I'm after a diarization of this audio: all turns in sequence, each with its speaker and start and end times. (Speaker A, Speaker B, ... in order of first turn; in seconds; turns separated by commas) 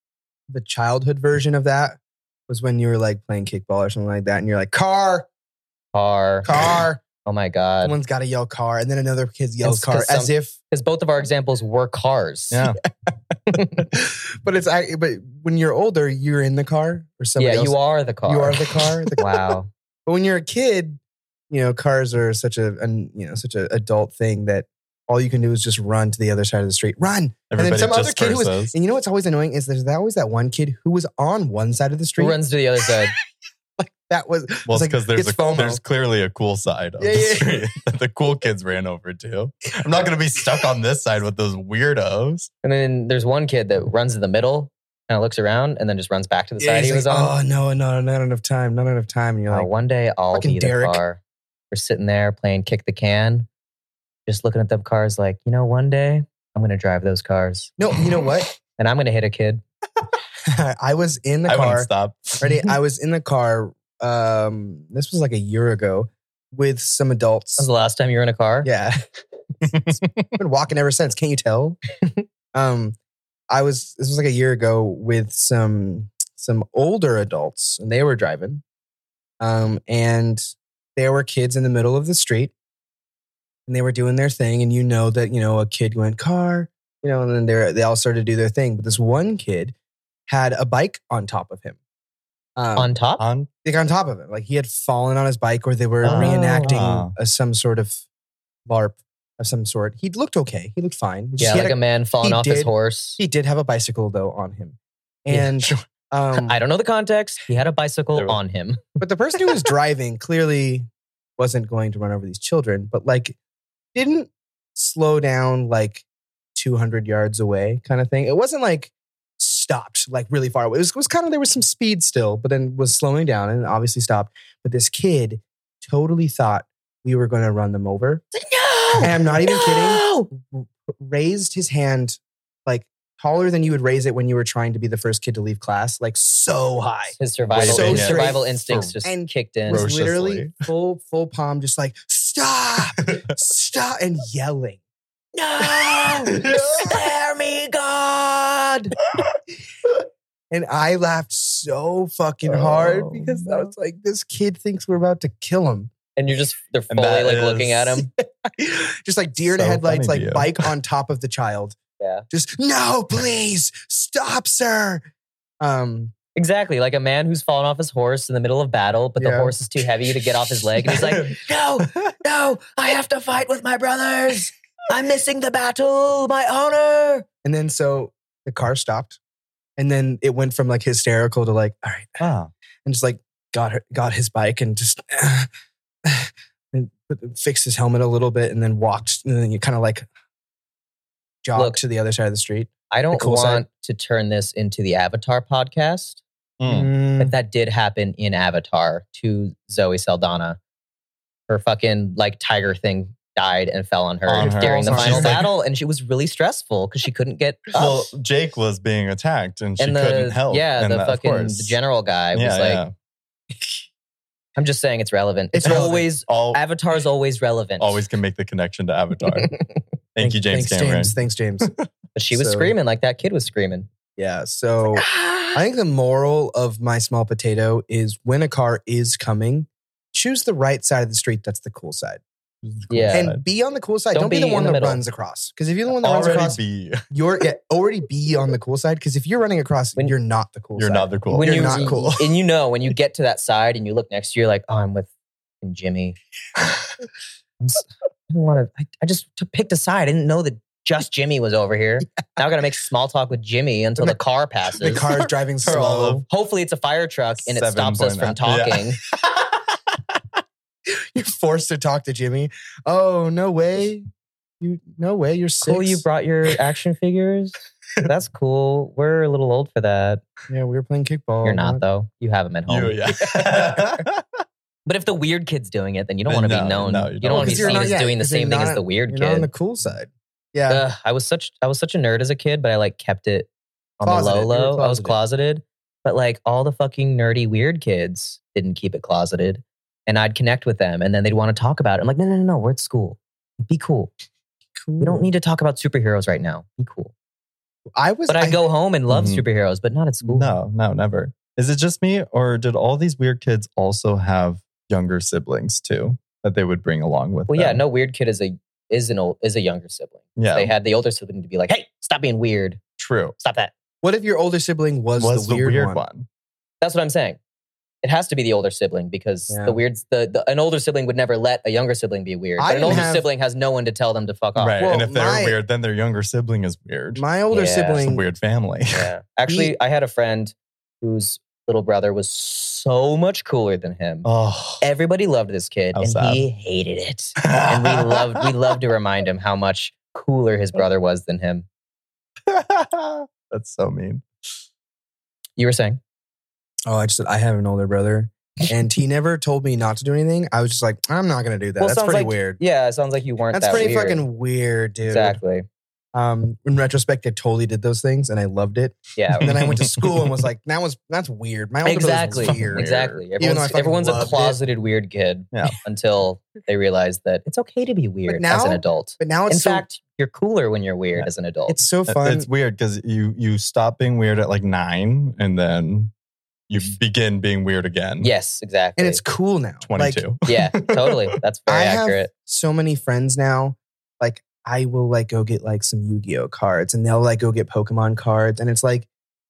Speaker A: 0.5-5.3, Speaker B: 5.9-6.5, Speaker A: 6.4-7.0, Speaker B: 7.2-8.0, Speaker A: 7.8-10.5, Speaker B: 9.6-12.7, Speaker C: 12.5-12.8, Speaker B: 13.5-13.8, Speaker A: 13.9-32.4, Speaker B: 17.4-19.7, Speaker C: 27.5-28.7, Speaker B: 32.2-33.1, Speaker A: 33.8-35.8, Speaker C: 34.6-42.5, Speaker A: 37.0-37.7, Speaker B: 42.6-47.3, Speaker A: 46.6-49.7, Speaker B: 49.5-51.2, Speaker A: 50.3-51.0, Speaker B: 51.7-53.5, Speaker B: 54.3-57.7, Speaker A: 57.8-58.5, Speaker B: 58.8-59.6, Speaker A: 60.4-67.7, Speaker C: 61.5-62.4, Speaker B: 67.6-68.7, Speaker A: 68.6-69.0, Speaker C: 69.7-70.3, Speaker A: 70.3-71.8, Speaker A: 72.5-73.0, Speaker A: 73.5-78.6, Speaker A: 79.4-80.4, Speaker A: 81.0-82.5, Speaker A: 83.7-89.7, Speaker A: 90.3-91.8, Speaker A: 92.5-92.9, Speaker B: 92.8-93.2, Speaker C: 93.2-93.5, Speaker A: 93.6-98.0, Speaker C: 96.0-97.1, Speaker B: 96.0-96.7, Speaker A: 98.7-106.6, Speaker B: 101.4-103.2, Speaker B: 106.4-109.0, Speaker A: 109.0-113.3, Speaker A: 113.9-116.0, Speaker A: 116.5-128.2, Speaker B: 128.3-130.3, Speaker A: 129.0-144.8, Speaker B: 137.2-139.8, Speaker C: 137.5-138.9, Speaker C: 139.7-140.5, Speaker B: 145.3-148.6, Speaker A: 145.6-148.9, Speaker C: 146.4-146.6, Speaker A: 150.5-155.9, Speaker C: 152.4-153.7, Speaker B: 156.2-158.1, Speaker C: 156.9-158.0, Speaker A: 158.2-161.8, Speaker C: 159.5-160.7, Speaker B: 162.0-162.2, Speaker A: 162.3-165.0, Speaker A: 165.6-166.1, Speaker B: 166.3-177.2, Speaker A: 169.2-169.5, Speaker C: 170.8-171.4, Speaker A: 177.4-179.2, Speaker A: 179.8-182.2, Speaker C: 182.2-182.5, Speaker A: 182.8-185.5, Speaker A: 186.0-190.1, Speaker A: 191.4-193.7, Speaker B: 191.5-191.8, Speaker B: 192.9-196.2, Speaker C: 196.6-196.9, Speaker A: 196.7-197.3, Speaker B: 197.2-200.6, Speaker B: 201.5-208.1, Speaker C: 204.3-205.5, Speaker A: 204.4-205.4, Speaker C: 207.7-211.8, Speaker B: 209.8-212.8, Speaker C: 212.3-212.9, Speaker B: 214.6-218.0, Speaker A: 215.5-216.1, Speaker C: 215.6-216.6, Speaker C: 217.8-219.5, Speaker C: 220.1-221.8, Speaker A: 220.2-221.7, Speaker B: 222.1-223.9, Speaker A: 222.3-222.7, Speaker A: 224.2-232.2, Speaker B: 224.9-225.6, Speaker C: 232.6-233.4, Speaker B: 232.9-233.3, Speaker A: 233.1-242.2, Speaker B: 234.1-235.0, Speaker C: 235.9-237.0, Speaker C: 240.8-242.1, Speaker B: 241.3-245.1, Speaker B: 245.6-246.2, Speaker B: 247.6-255.0, Speaker A: 254.8-256.2, Speaker C: 255.6-256.2, Speaker B: 256.3-259.0, Speaker C: 257.4-259.4, Speaker A: 260.9-264.1, Speaker A: 264.6-266.0, Speaker B: 265.6-270.2, Speaker A: 270.5-271.8, Speaker B: 271.4-274.0, Speaker C: 272.7-274.2, Speaker B: 274.9-279.5, Speaker C: 276.3-277.9, Speaker A: 277.3-280.8, Speaker B: 280.7-294.1, Speaker A: 284.0-285.2, Speaker A: 294.8-295.3, Speaker B: 295.0-297.1, Speaker A: 297.9-298.6, Speaker B: 298.3-300.5, Speaker C: 299.1-299.4, Speaker C: 300.2-307.8, Speaker B: 307.5-312.8, Speaker C: 310.4-310.7, Speaker C: 313.0-313.3, Speaker B: 313.4-313.7, Speaker A: 314.0-316.0, Speaker C: 315.2-316.2, Speaker B: 316.8-317.4, Speaker B: 318.0-324.8, Speaker A: 319.5-319.8, Speaker A: 322.6-323.3, Speaker C: 324.6-327.2, Speaker A: 324.8-325.6, Speaker A: 327.1-328.2, Speaker B: 327.5-328.0, Speaker C: 328.0-329.1, Speaker B: 328.9-334.3, Speaker A: 329.5-329.7, Speaker C: 334.2-334.8, Speaker B: 334.8-341.7, Speaker C: 335.9-336.4, Speaker C: 337.4-338.4, Speaker C: 342.5-344.2, Speaker B: 345.6-346.0, Speaker A: 346.9-352.6, Speaker B: 351.8-354.2, Speaker A: 353.5-355.4, Speaker B: 355.1-355.6, Speaker A: 356.1-364.6, Speaker B: 359.1-359.5, Speaker C: 359.4-360.3, Speaker B: 361.8-371.8, Speaker C: 362.4-363.2, Speaker A: 368.3-369.9, Speaker A: 371.7-372.5, Speaker C: 372.1-376.1, Speaker C: 376.7-378.3, Speaker B: 378.2-379.2, Speaker A: 379.0-380.2, Speaker C: 379.8-381.2, Speaker B: 380.4-382.3, Speaker A: 381.7-389.1